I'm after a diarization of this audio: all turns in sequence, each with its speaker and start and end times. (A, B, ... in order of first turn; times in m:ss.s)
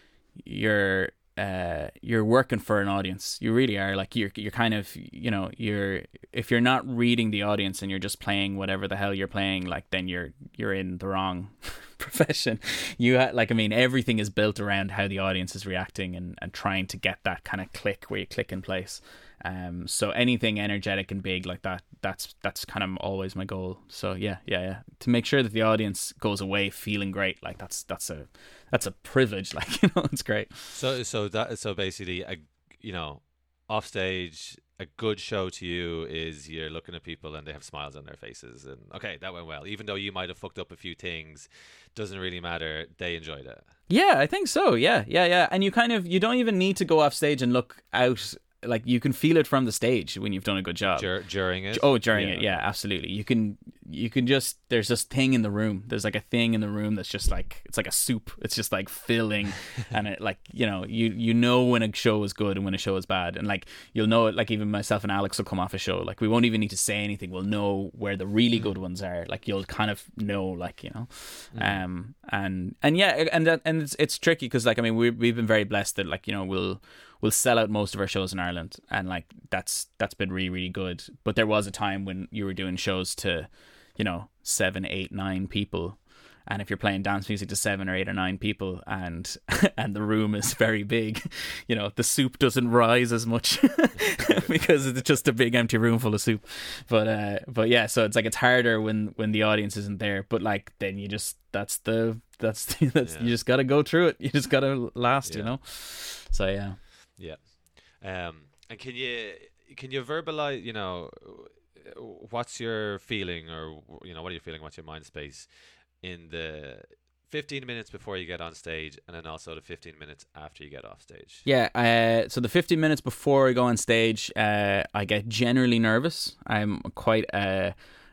0:00.4-0:30.8 A
0:30.7-0:43.7 B
0:43.9-0:51.1 A
0:50.9-0:52.6 B
0:51.7-1:46.8 A
1:11.5-1:11.8 B
1:34.2-1:34.5 B
1:43.0-1:43.3 B
1:45.2-1:45.5 B
1:47.2-1:55.5 B
1:56.0-2:01.4 B
2:01.4-2:07.8 A